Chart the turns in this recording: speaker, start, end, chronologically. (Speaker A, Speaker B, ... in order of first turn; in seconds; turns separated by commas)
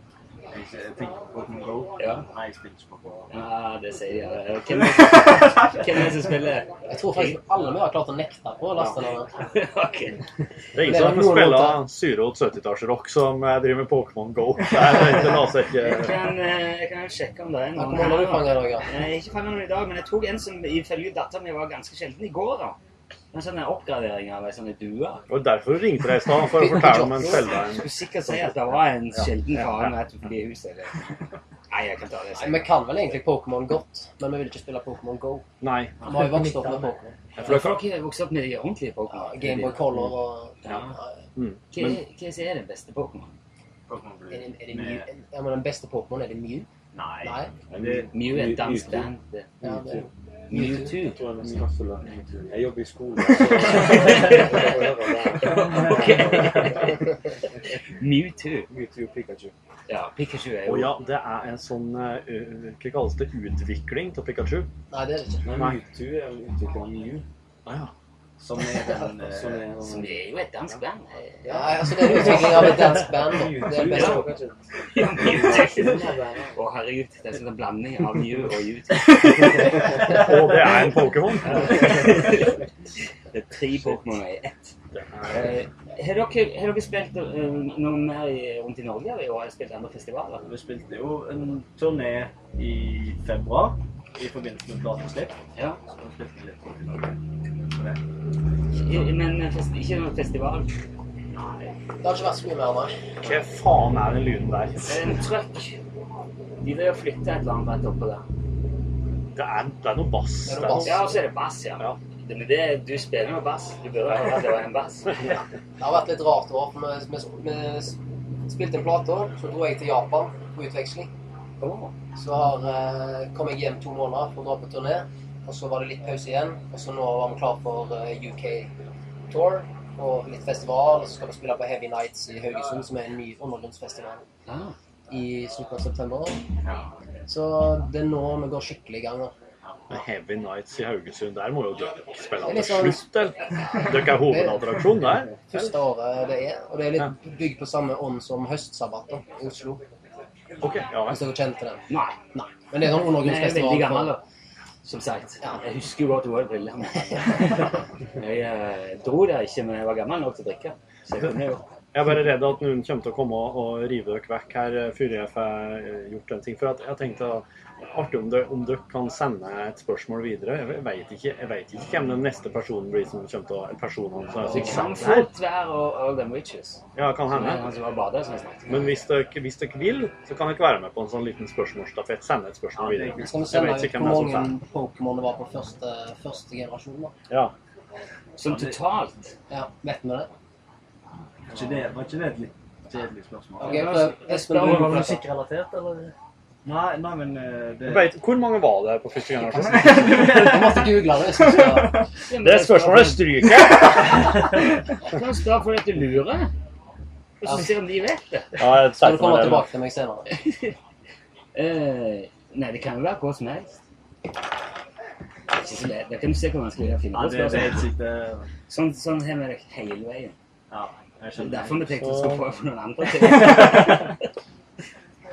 Speaker A: 0.5-3.3, Speaker B: 2.0-2.2, Speaker B: 3.3-7.4, Speaker C: 6.9-9.3, Speaker B: 9.4-10.2, Speaker D: 10.7-16.2, Speaker C: 10.8-11.8, Speaker B: 15.8-22.8, Speaker C: 17.8-18.9, Speaker B: 23.3-25.2, Speaker D: 25.3-28.3, Speaker C: 26.4-27.5, Speaker B: 27.6-31.1, Speaker D: 29.2-29.9, Speaker B: 31.7-32.7, Speaker C: 32.4-35.5, Speaker D: 35.6-36.0, Speaker C: 36.0-37.1, Speaker E: 36.1-36.9, Speaker D: 37.4-37.8, Speaker B: 37.4-39.9, Speaker C: 39.1-41.1, Speaker B: 40.6-40.9, Speaker D: 41.4-42.0, Speaker B: 41.7-43.3, Speaker A: 43.9-45.1, Speaker C: 44.3-46.7, Speaker A: 46.9-48.1, Speaker C: 47.2-47.5, Speaker F: 47.7-49.1, Speaker B: 48.1-49.5, Speaker F: 49.6-50.0, Speaker C: 49.6-51.0, Speaker B: 50.5-51.2, Speaker F: 51.0-56.8, Speaker B: 53.6-54.7, Speaker B: 55.3-57.1, Speaker B: 58.0-58.7, Speaker F: 58.7-59.5, Speaker B: 59.9-61.0, Speaker D: 60.6-64.7, Speaker C: 64.9-65.6, Speaker F: 65.4-67.2, Speaker D: 65.5-65.8, Speaker D: 67.7-67.9, Speaker A: 68.4-69.7, Speaker F: 69.2-70.2, Speaker B: 69.8-71.6, Speaker F: 71.4-74.6, Speaker C: 71.5-74.3, Speaker B: 73.7-74.3, Speaker B: 74.9-79.8, Speaker F: 75.2-76.5, Speaker D: 80.0-82.0, Speaker B: 81.5-82.6, Speaker B: 83.3-84.7, Speaker D: 84.9-85.5, Speaker B: 85.3-90.5, Speaker A: 90.4-97.2, Speaker A: 97.7-98.0, Speaker B: 98.8-100.7, Speaker A: 101.3-101.7, Speaker C: 102.0-103.0, Speaker D: 103.2-105.1, Speaker B: 104.8-105.8, Speaker B: 106.6-108.2, Speaker D: 109.3-111.0, Speaker C: 110.5-111.2, Speaker B: 110.8-115.3, Speaker C: 115.8-121.1, Speaker B: 121.6-121.9, Speaker C: 122.2-128.7, Speaker C: 129.3-134.2, Speaker B: 134.5-134.7, Speaker C: 135.1-136.4, Speaker A: 136.6-136.9, Speaker C: 137.3-139.3, Speaker A: 139.7-139.9, Speaker D: 139.9-145.4, Speaker C: 142.4-143.0, Speaker C: 144.0-144.8, Speaker C: 145.5-149.8, Speaker D: 150.6-151.2, Speaker C: 151.1-151.8, Speaker B: 151.9-152.2, Speaker C: 152.3-154.2, Speaker B: 153.1-154.2, Speaker B: 154.8-161.7, Speaker D: 161.9-175.3, Speaker B: 174.4-179.0, Speaker D: 176.9-177.6, Speaker D: 178.7-184.5, Speaker A: 182.8-183.4, Speaker C: 183.2-187.1, Speaker B: 188.4-189.3, Speaker A: 188.4-188.8, Speaker C: 189.5-190.3, Speaker A: 191.5-193.9, Speaker C: 193.6-195.2, Speaker E: 193.6-196.1, Speaker B: 194.5-194.9, Speaker A: 196.6-198.1, Speaker D: 197.8-200.4, Speaker C: 199.8-202.0, Speaker A: 200.0-201.0, Speaker A: 201.5-202.0, Speaker B: 202.3-206.5, Speaker D: 202.4-204.3, Speaker B: 207.4-208.6, Speaker D: 208.6-209.7, Speaker C: 208.6-210.3, Speaker B: 210.3-210.7, Speaker B: 211.5-213.8, Speaker B: 215.5-217.9, Speaker A: 217.1-218.5, Speaker B: 218.7-220.3, Speaker A: 220.7-222.0, Speaker B: 221.4-224.1, Speaker D: 222.1-222.4